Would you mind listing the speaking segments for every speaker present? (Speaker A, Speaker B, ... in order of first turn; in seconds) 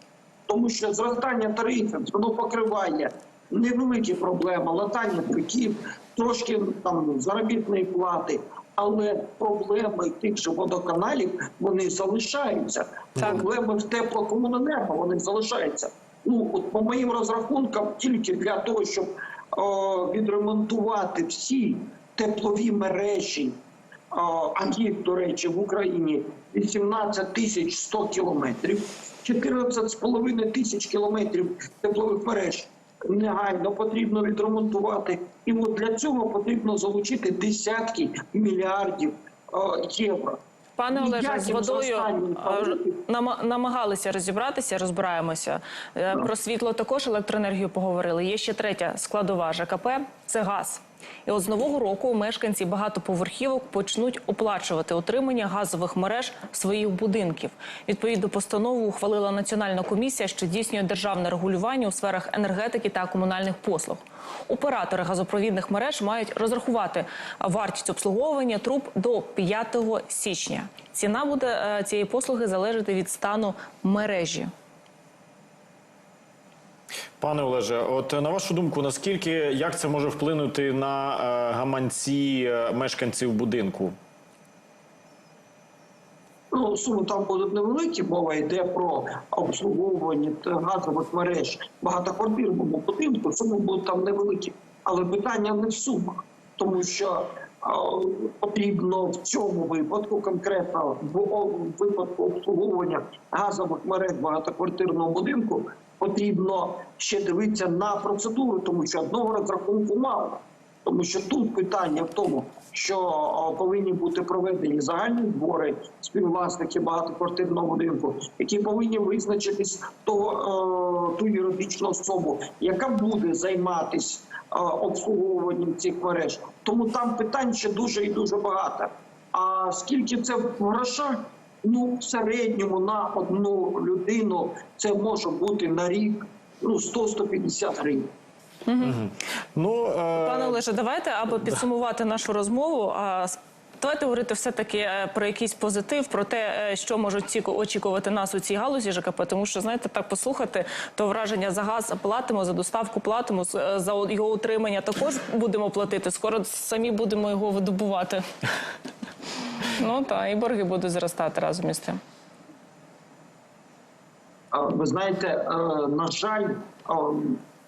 Speaker A: 0.5-23.6, 24.1-40.4, 40.9-43.0, 86.5-138.1, 164.5-167.4
Speaker B: 40.8-74.5, 138.7-138.9, 140.1-158.2, 159.7-162.0
Speaker C: 77.2-83.9, 138.8-140.6